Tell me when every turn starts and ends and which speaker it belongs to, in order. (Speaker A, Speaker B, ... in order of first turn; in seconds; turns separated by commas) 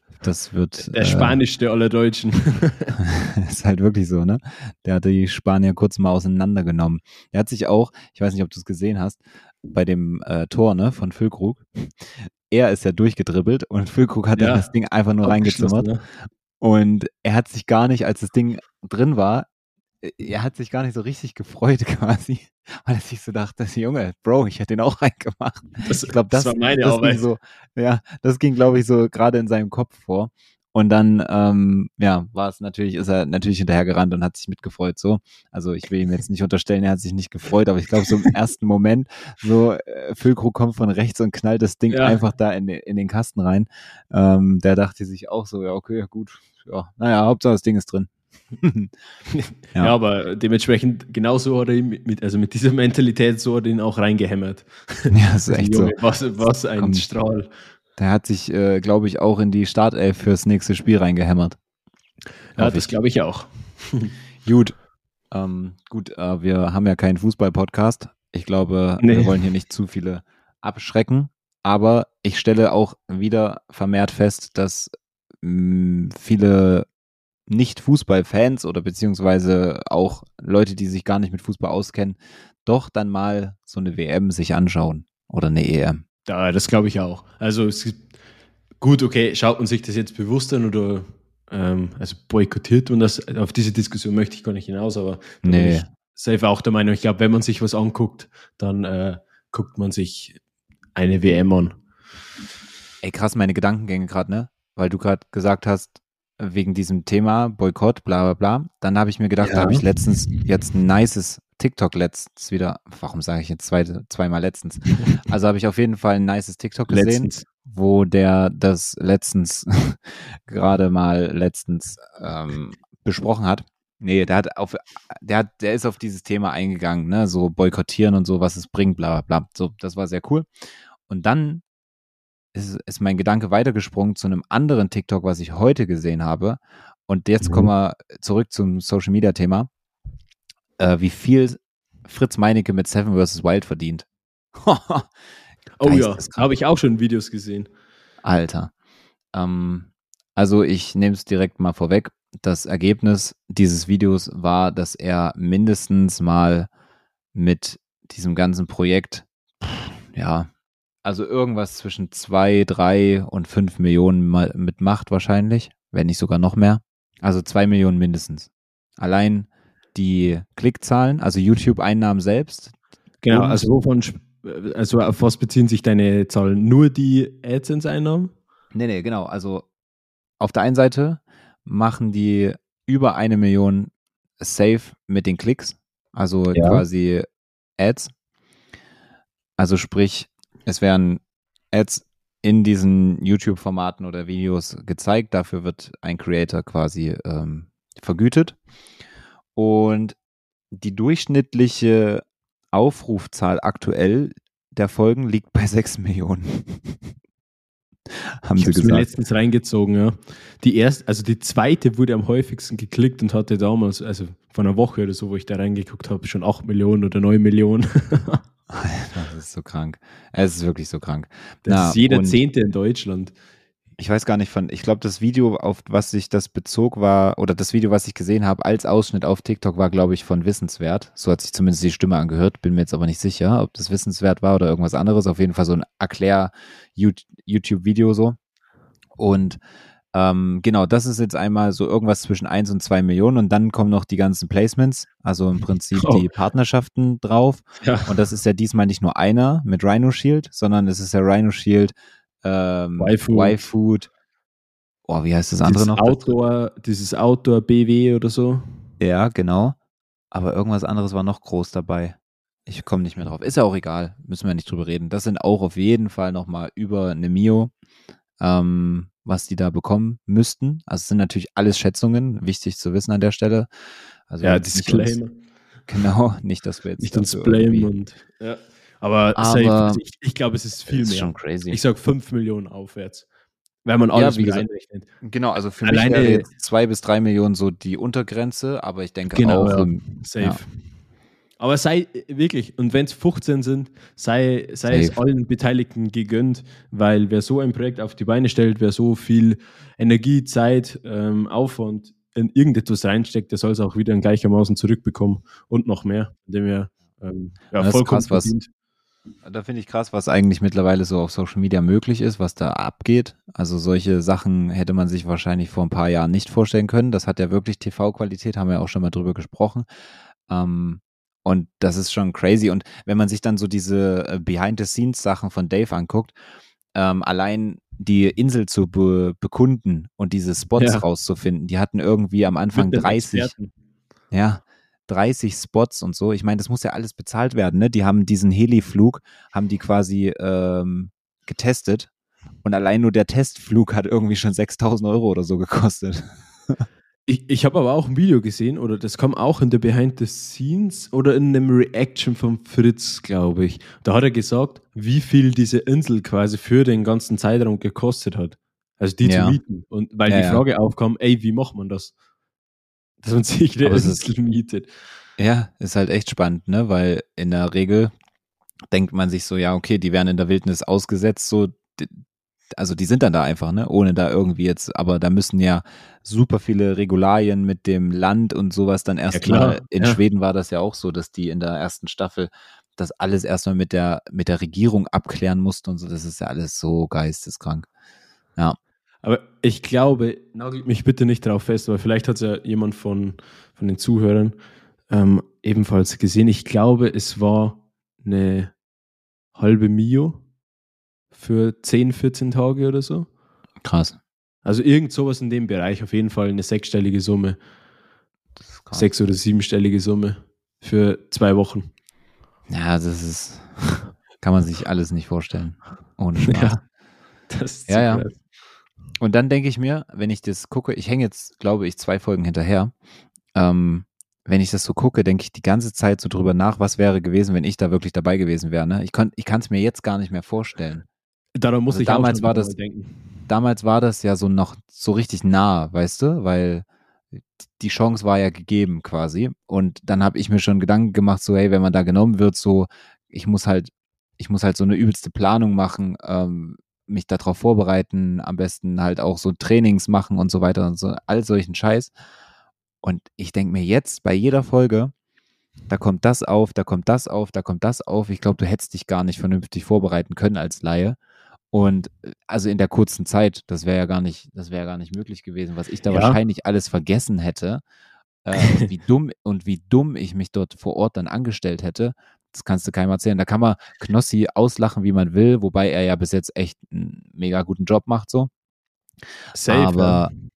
Speaker A: 0.1-1.4, Speaker B: 0.9-2.9, Speaker A: 3.0-15.9, Speaker B: 14.3-14.7, Speaker B: 15.2-16.0, Speaker A: 16.6-19.5, Speaker A: 20.0-48.1, Speaker B: 25.9-27.2, Speaker B: 41.9-42.2, Speaker A: 48.6-48.9, Speaker B: 49.3-57.5, Speaker A: 55.1-55.9, Speaker A: 56.8-57.0, Speaker A: 58.0-61.6, Speaker B: 62.5-64.1, Speaker A: 62.6-62.9, Speaker A: 64.4-64.7, Speaker A: 65.3-74.9, Speaker B: 69.0-69.3, Speaker A: 75.4-76.9, Speaker A: 77.5-86.0, Speaker B: 86.3-88.1, Speaker B: 88.8-100.4, Speaker A: 95.4-95.9, Speaker B: 100.9-101.8, Speaker A: 103.0-130.4, Speaker B: 109.4-109.8, Speaker B: 116.9-117.4, Speaker A: 131.1-131.6, Speaker A: 132.5-139.7, Speaker B: 137.4-137.7, Speaker A: 140.8-145.1, Speaker B: 145.8-147.7, Speaker A: 145.8-146.4, Speaker A: 148.2-148.7, Speaker A: 149.3-156.7, Speaker A: 157.3-160.5, Speaker A: 161.0-172.7, Speaker B: 173.2-178.3, Speaker A: 173.3-173.7, Speaker A: 178.7-179.7, Speaker A: 180.4-187.3, Speaker B: 186.5-186.8, Speaker A: 187.8-188.1, Speaker A: 189.6-198.6, Speaker A: 199.5-200.2, Speaker A: 200.7-207.0, Speaker A: 208.4-209.1, Speaker B: 208.6-218.4, Speaker A: 218.7-222.4, Speaker B: 221.6-223.3, Speaker A: 224.0-238.3, Speaker A: 239.2-239.6, Speaker A: 240.1-254.1, Speaker B: 246.0-246.2, Speaker B: 247.8-248.1, Speaker B: 253.0-253.6, Speaker A: 255.1-256.3, Speaker B: 255.6-258.6, Speaker A: 259.0-259.8, Speaker A: 260.3-267.7, Speaker A: 268.4-273.7, Speaker A: 274.3-275.2, Speaker B: 274.4-275.3, Speaker A: 275.9-277.9, Speaker B: 277.0-283.2, Speaker A: 279.3-280.0, Speaker A: 280.9-281.8, Speaker B: 283.8-285.1, Speaker A: 284.1-284.6, Speaker A: 285.2-290.6, Speaker B: 285.8-286.5, Speaker B: 289.3-290.7, Speaker B: 291.6-308.7, Speaker A: 294.9-295.2, Speaker A: 307.8-308.5, Speaker A: 309.4-319.9, Speaker A: 320.5-326.3, Speaker A: 326.9-333.5, Speaker B: 330.8-331.0, Speaker B: 332.7-333.7, Speaker A: 334.3-342.1, Speaker A: 342.6-346.8, Speaker B: 347.3-362.1, Speaker A: 359.2-359.6, Speaker A: 360.3-360.6, Speaker B: 363.2-364.9, Speaker A: 363.8-364.2, Speaker A: 365.4-368.1, Speaker A: 368.9-387.9, Speaker B: 379.3-380.2, Speaker B: 389.2-394.6, Speaker B: 395.1-398.7, Speaker B: 399.5-400.4, Speaker B: 401.3-403.3, Speaker A: 403.8-404.2, Speaker B: 404.6-407.6, Speaker A: 408.7-409.1, Speaker B: 408.9-411.9, Speaker A: 412.7-416.8, Speaker B: 416.4-416.8, Speaker B: 417.5-418.4, Speaker A: 417.9-418.3, Speaker A: 419.2-422.9, Speaker A: 423.5-431.1, Speaker B: 431.6-433.2, Speaker A: 431.9-432.7, Speaker A: 433.5-452.1, Speaker A: 453.0-455.1, Speaker A: 455.9-461.2, Speaker A: 461.7-467.8, Speaker B: 466.1-466.4, Speaker A: 468.4-478.5, Speaker B: 479.5-480.3, Speaker A: 479.7-480.3